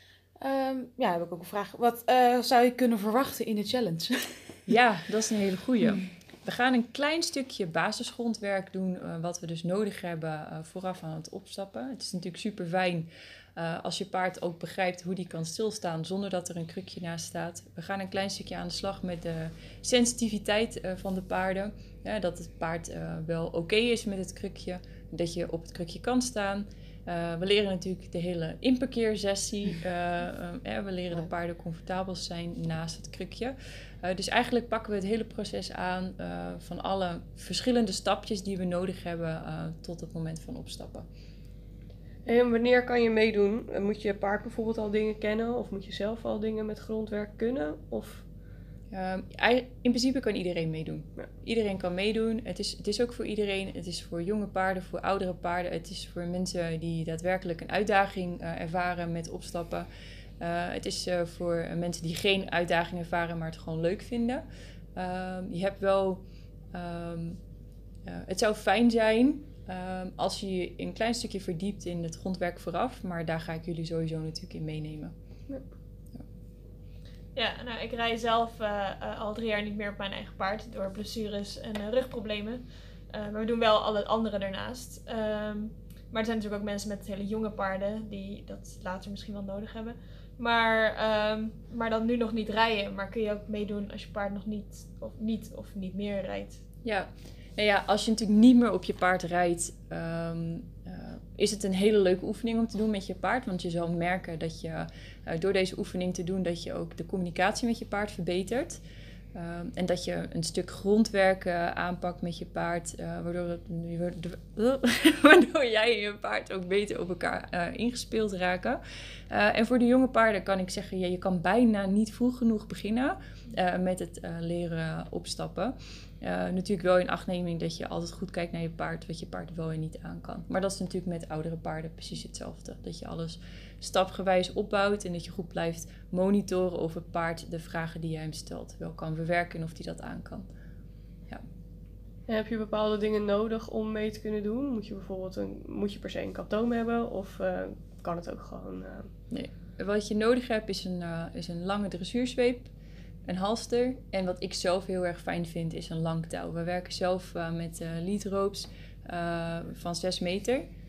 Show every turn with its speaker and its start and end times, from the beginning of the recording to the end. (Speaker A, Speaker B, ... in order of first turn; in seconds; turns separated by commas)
Speaker A: 0.3-4.7, Speaker B: 4.7-41.0, Speaker C: 42.2-48.3, Speaker B: 48.9-59.9, Speaker B: 60.4-64.4, Speaker B: 65.0-67.4, Speaker B: 68.0-75.1, Speaker C: 75.5-75.7, Speaker D: 77.3-96.6, Speaker B: 96.8-108.8, Speaker B: 109.3-140.4, Speaker C: 142.3-149.1, Speaker B: 149.3-152.7, Speaker B: 153.2-160.7